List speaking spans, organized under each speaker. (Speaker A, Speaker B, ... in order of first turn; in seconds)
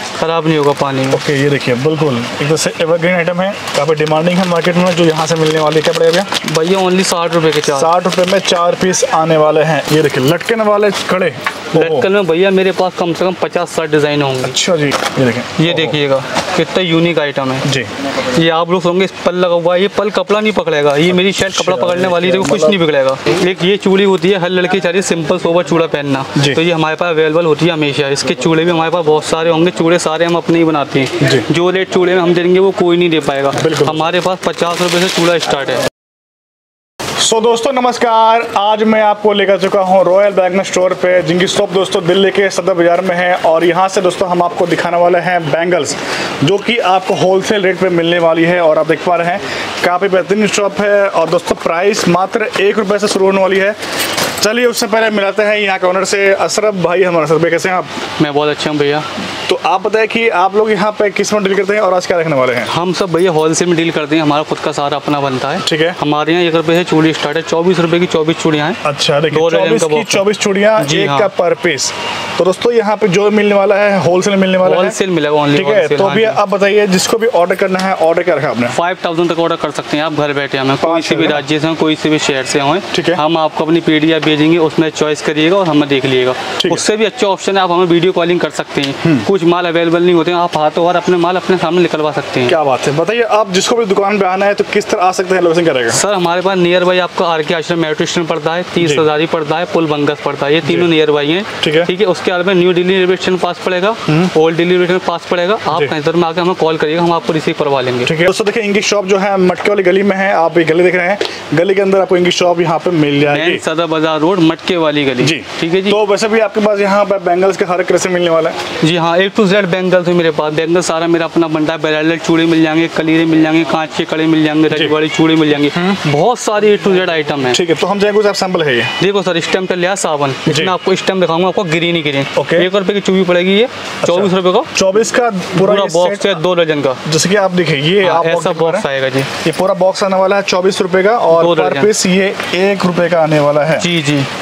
Speaker A: 0.2-1.2, 6.4-7.9, 11.7-14.6, 15.6-17.6, 18.2-35.8, 58.2-59.0, 62.7-68.8, 69.3-70.2, 70.8-71.3, 74.6-76.4, 78.7-92.6, 95.9-108.1, 113.2-116.0, 118.8-127.6, 129.0-134.7, 135.6-137.0, 138.0-139.3, 141.3-141.9, 143.8-144.3
Speaker B: 1.1-6.3, 7.7-12.1, 14.4-16.0, 17.6-17.9, 21.1-22.8, 26.4-26.6, 31.2-31.5, 33.6-34.0, 37.2-53.8, 54.4-57.9, 59.5-62.7, 65.6-66.0, 68.8-75.0, 75.5-78.8, 80.8-81.4, 82.9-83.2, 86.6-86.8, 92.5-96.0, 98.8-99.1, 100.6-100.9, 101.6-101.9, 104.1-104.3, 108.0-113.6, 115.2-118.6, 124.7-125.0, 125.7-126.0, 127.5-128.9, 130.5-130.7, 132.3-132.7, 134.0-136.3, 137.1-138.9, 139.4-143.9